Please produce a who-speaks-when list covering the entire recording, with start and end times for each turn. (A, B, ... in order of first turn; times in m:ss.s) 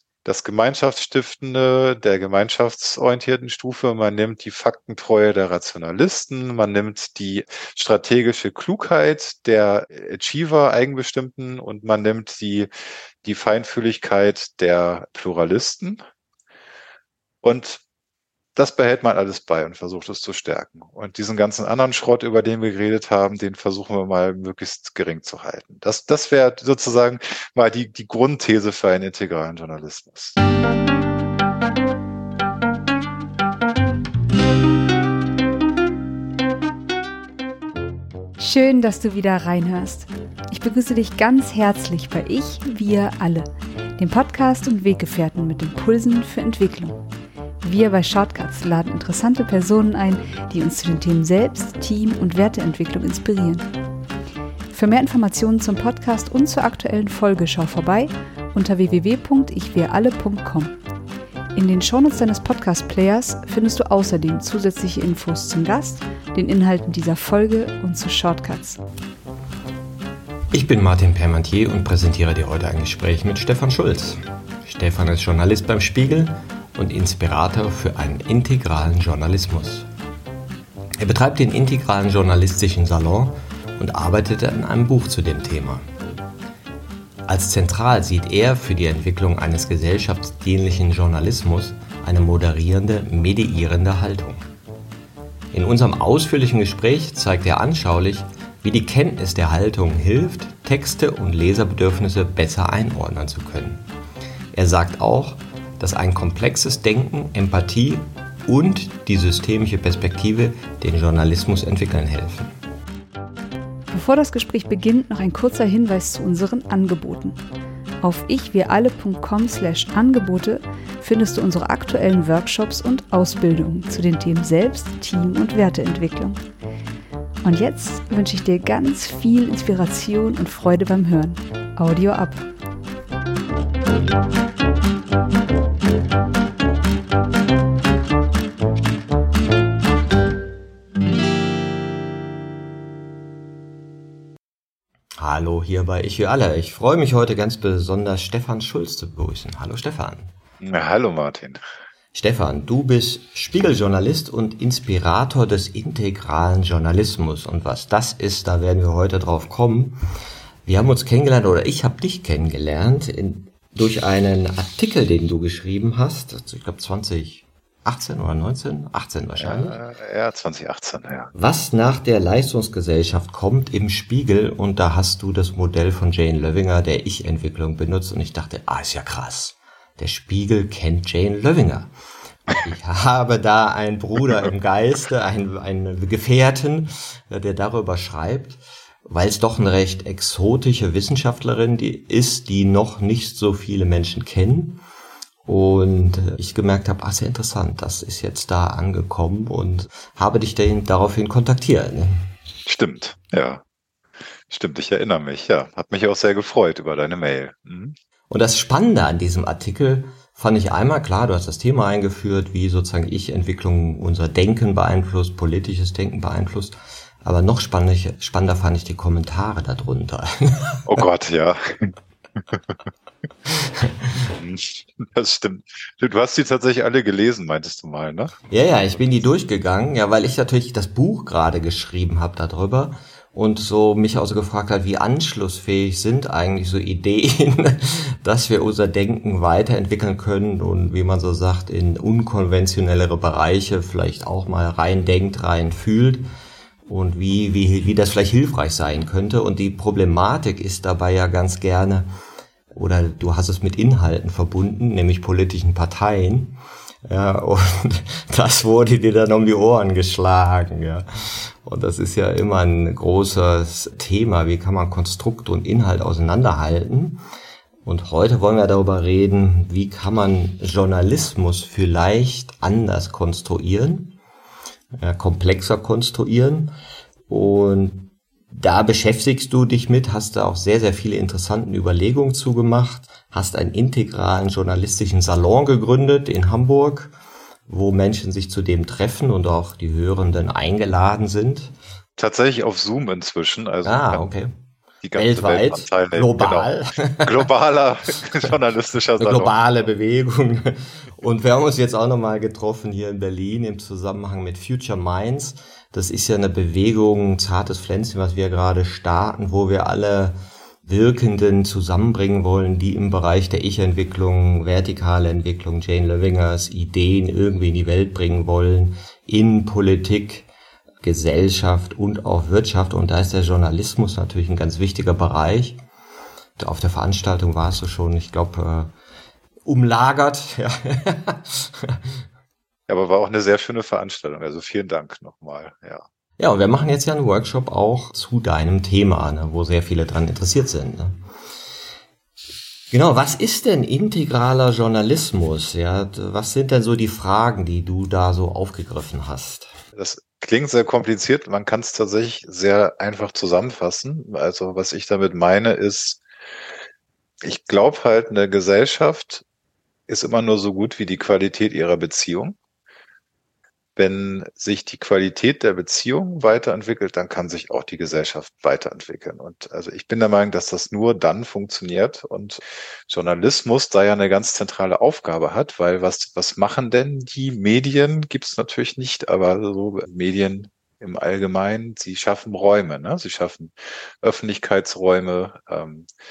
0:00.2-0:12.7 A
0:13.2-0:16.0 A
0:17.4-0:17.8 A
0:18.6-0:30.4 A
0:38.4-0:47.0 B
0:47.6-0:53.6 B
0:54.7-1:00.7 B
1:01.6-1:08.8 B
1:10.5-1:19.9 C
1:21.0-1:25.8 C
1:27.3-1:34.4 C
1:35.5-1:43.8 C
1:44.5-1:52.5 C
1:53.9-1:57.4 B
1:58.0-2:06.4 B
2:07.4-2:12.4 B
2:25.2-2:30.3 C
2:30.6-2:31.6 A
2:32.1-2:40.0 C
2:40.6-2:49.8 C
2:49.4-2:51.3 A
2:51.3-3:01.9 C
3:02.5-3:14.8 C
3:15.4-3:22.1 C
3:22.6-3:23.6 A
3:24.5-3:27.9 A
3:28.3-3:41.0 C
3:40.8-3:41.9 A
3:43.5-3:44.3 C
3:44.3-3:48.4 A
3:48.5-4:06.2 C
4:06.9-4:12.1 C
4:12.7-4:27.2 C
4:27.8-4:34.2 C
4:35.0-4:36.7 C
4:37.3-4:47.1 C
4:47.7-4:51.7 C
4:52.2-4:54.2 A
4:53.8-4:54.5 C
4:55.0-4:59.5 A
4:55.1-4:57.4 C
4:59.2-5:20.5 C
5:21.0-5:25.8 C
5:26.6-5:28.9 C
5:29.6-5:32.2 C
5:32.9-5:36.0 A
5:36.4-5:41.2 C
5:42.9-5:49.7 C
5:50.0-5:56.2 A
5:57.4-5:59.4 A
6:00.1-6:02.6 A
6:04.0-6:26.1 A